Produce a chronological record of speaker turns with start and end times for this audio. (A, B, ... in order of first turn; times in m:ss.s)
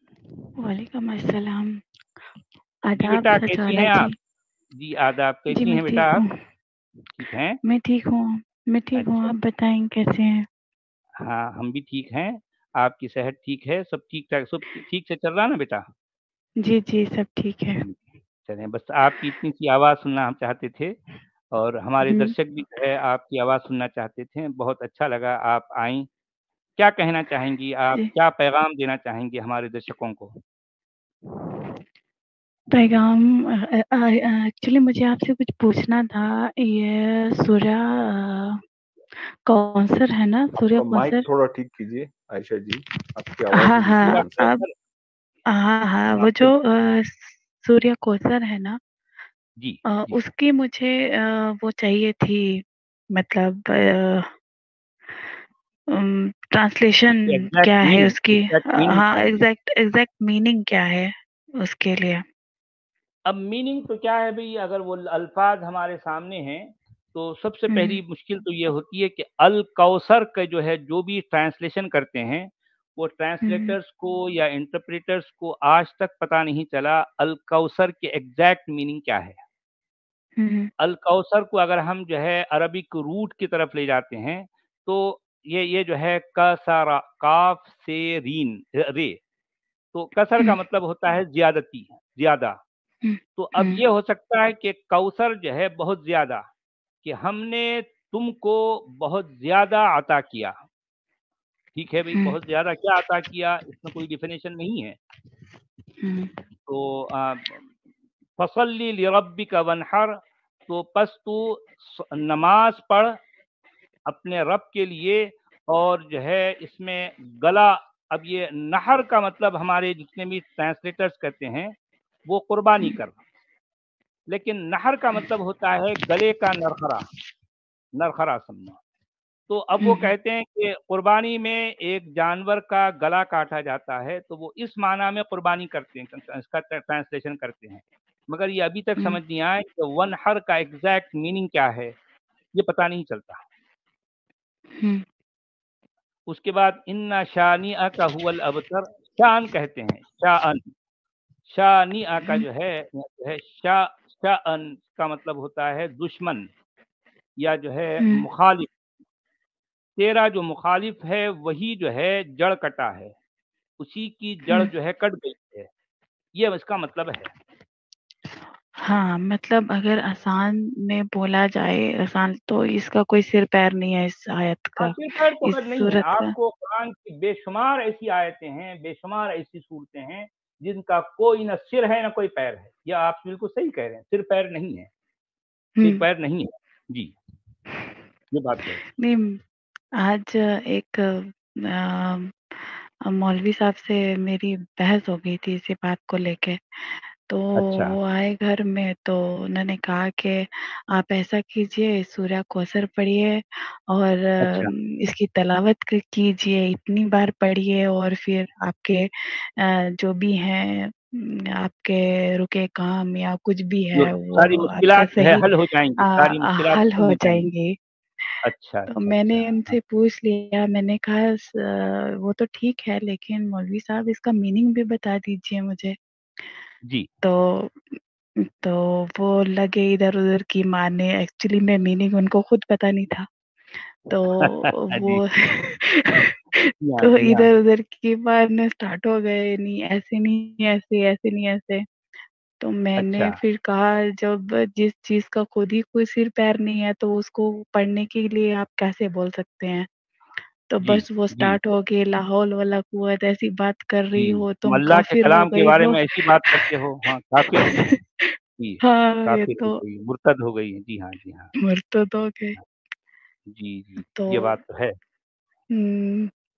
0:00.6-0:01.8 A
0:02.9-0:04.2 A
0:03.0-0:04.1 B
0:04.7-0:06.2 B
0:05.5-0:06.4 A
0:07.2-0:07.6 B
0:07.6-0:10.4 A
0:09.0-0:09.3 B
0:11.2-0:15.8 B
0:16.6-0:17.8 A
0:17.8-0:21.0 B
0:21.5-0:26.1 B
0:22.0-0:22.3 A
0:26.8-0:30.3 B
0:32.7-0:38.6 A
0:39.4-0:41.3 A
0:40.8-0:44.4 C
0:43.6-0:44.6 A
0:44.0-0:44.7 B
0:45.5-0:48.8 A
0:46.1-0:46.5 B
0:49.6-0:50.2 B
0:49.9-0:54.3 A
0:55.1-0:55.4 A
0:55.9-1:02.2 A
0:57.3-0:59.4 B
1:03.3-1:19.4 B
1:07.7-1:08.0 A
1:13.4-1:13.8 A
1:20.4-1:20.7 A
1:20.8-1:29.2 B
1:29.9-1:32.6 B
1:33.0-1:33.8 A
1:33.4-1:36.4 B
1:37.0-1:40.5 B
1:41.8-1:45.0 B
1:46.0-1:46.3 A
1:46.7-1:47.6 B
1:48.4-1:53.1 B
1:54.1-2:01.7 B
2:02.3-2:03.2 B
2:04.3-2:07.1 B
2:08.0-2:08.8 B
2:09.5-2:21.9 B
2:09.8-2:10.1 A
2:22.6-2:23.4 B
2:24.8-2:25.0 A
2:26.3-2:30.7 B
2:31.5-2:36.5 B
2:37.4-2:38.7 B
2:40.0-2:43.1 B
2:43.8-2:45.7 B
2:46.4-2:47.3 B
2:48.9-2:56.3 A
2:54.8-3:04.9 B
3:05.8-3:06.0 A
3:05.8-3:07.1 B
3:08.3-3:08.8 B
3:09.0-3:09.4 A
3:10.0-3:35.5 A
3:17.6-3:18.0 B
3:24.4-3:24.7 B
3:34.0-3:37.5 B
3:36.0-3:37.8 A
3:38.4-3:39.8 B
3:38.9-3:46.0 A
3:47.2-3:48.0 A
3:48.6-3:53.3 A
3:53.8-3:56.4 A
3:54.4-3:55.2 B
3:56.8-3:57.5 B
3:57.0-4:01.8 A
4:02.6-4:09.9 A
4:03.0-4:03.4 B
4:10.7-4:16.7 A
4:10.8-4:11.6 B
4:14.2-4:17.8 B
4:17.5-4:19.8 A
4:18.6-4:21.5 B
4:21.6-4:22.6 A
4:23.5-4:25.0 B
4:24.2-4:24.6 A
4:25.8-4:26.3 A